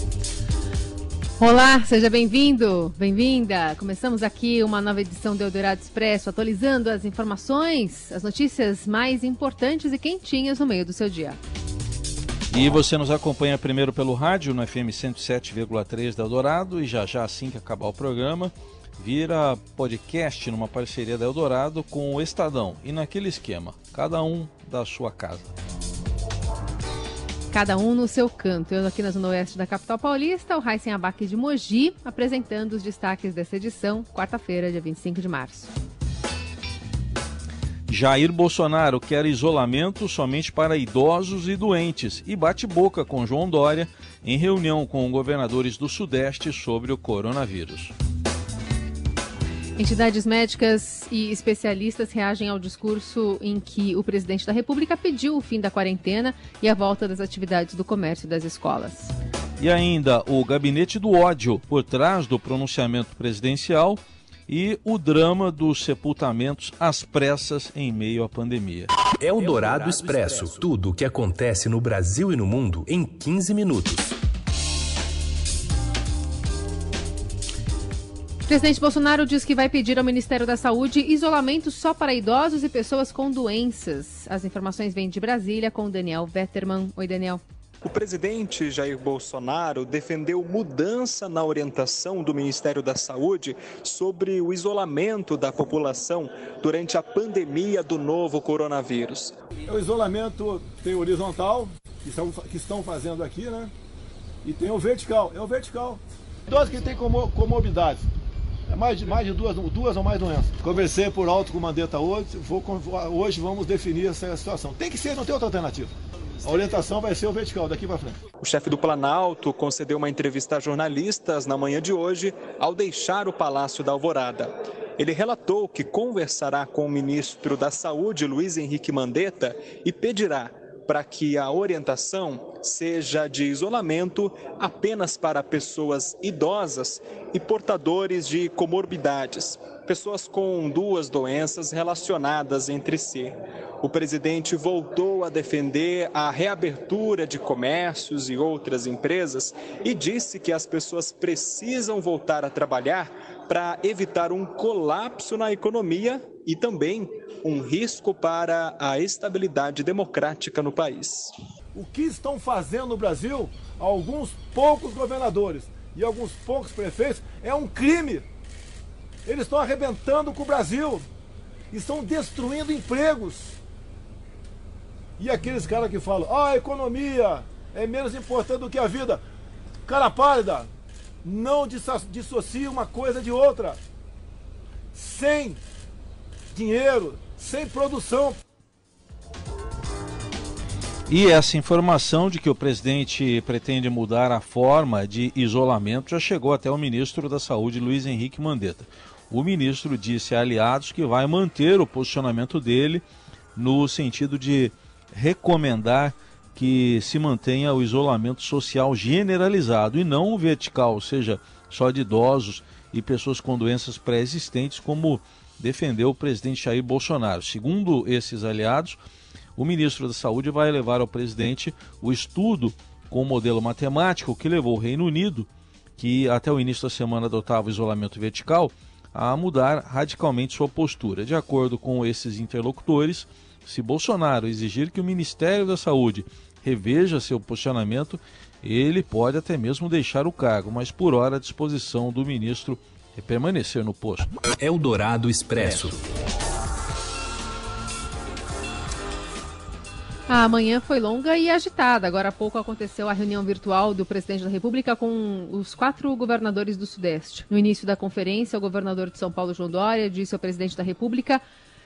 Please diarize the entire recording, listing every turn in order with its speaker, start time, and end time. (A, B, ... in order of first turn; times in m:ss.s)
0:01.4-0:11.4 A
0:12.5-0:25.5 B
0:27.5-0:35.7 A
0:37.9-0:47.9 B
0:49.8-0:59.1 A
0:59.6-1:08.9 B
1:09.2-1:14.2 C
1:18.5-1:27.4 A
1:27.8-1:39.3 D
1:39.7-1:43.7 E
1:44.4-1:48.1 E
1:48.7-1:55.9 E
1:56.4-1:58.2 E
1:58.4-2:41.3 D
2:41.7-2:48.3 E
2:49.3-2:51.1 E
2:51.7-2:53.6 E
2:55.2-2:59.2 E
2:59.8-3:00.7 E
3:01.2-3:03.8 E
3:04.9-3:05.6 E
3:06.5-3:08.4 E
3:11.1-3:23.0 B
3:23.6-3:39.0 B
3:39.6-4:04.3 B
4:04.6-4:06.0 C
4:10.3-4:21.4 A